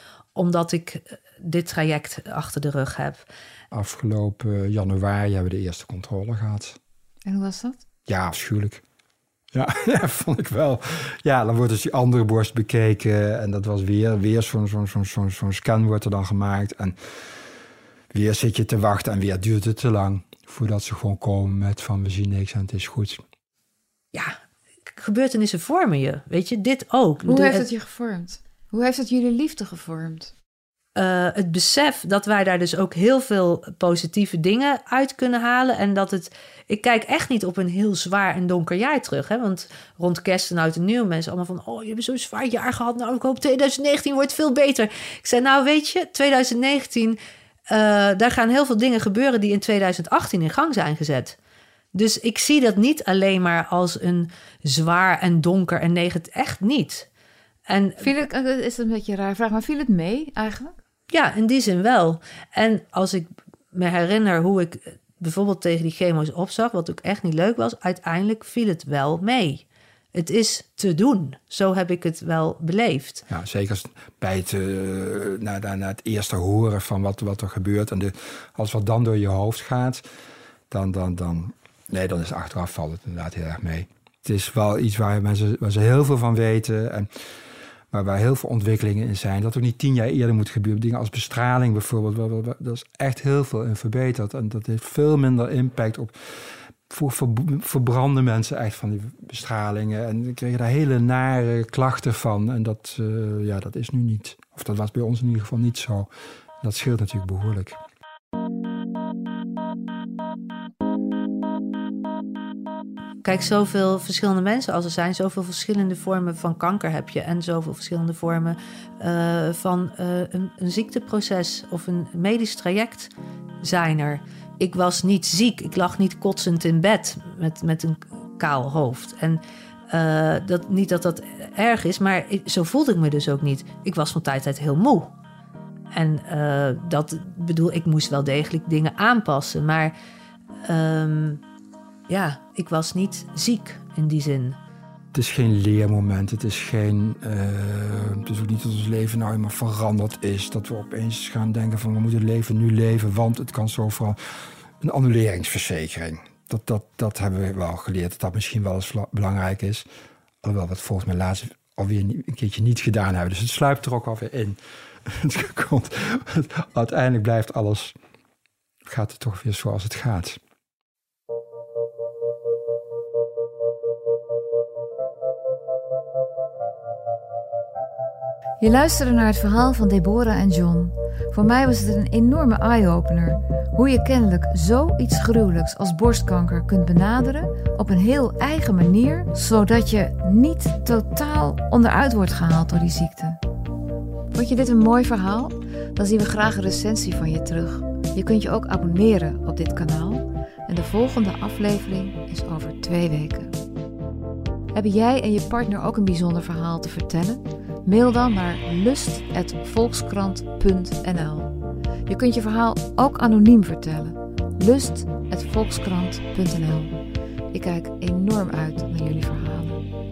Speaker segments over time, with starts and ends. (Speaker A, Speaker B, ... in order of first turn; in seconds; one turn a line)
Speaker A: 0.3-3.2
Speaker B: 3.7-6.8
Speaker C: 7.2-7.8
Speaker B: 8.1-8.8
Speaker B: 9.5-16.9
Speaker B: 18.1-23.2
Speaker A: 24.9-27.7
Speaker C: 27.3-30.3
Speaker A: 30.9-47.2
Speaker A: 47.7-51.4
Speaker A: 51.9-57.1
Speaker A: 57.7-58.0
Speaker C: 58.0-60.8
Speaker A: 61.1-73.2
Speaker B: 73.3-80.0
Speaker B: 80.7-87.1
Speaker B: 87.9-106.1
Speaker B: 106.6-107.8
Speaker A: 113.2-123.1
Speaker A: 123.6-135.1
Speaker A: 135.9-139.9
Speaker A: 140.6-141.4
Speaker A: 142.1-144.6
Speaker B: 145.1-159.8
Speaker B: 160.4-167.9
Speaker B: 168.8-170.4
Speaker C: 178.6-193.4
Speaker C: 194.3-203.6
Speaker C: 204.7-211.5
Speaker C: 212.1-216.9
Speaker C: 217.5-219.8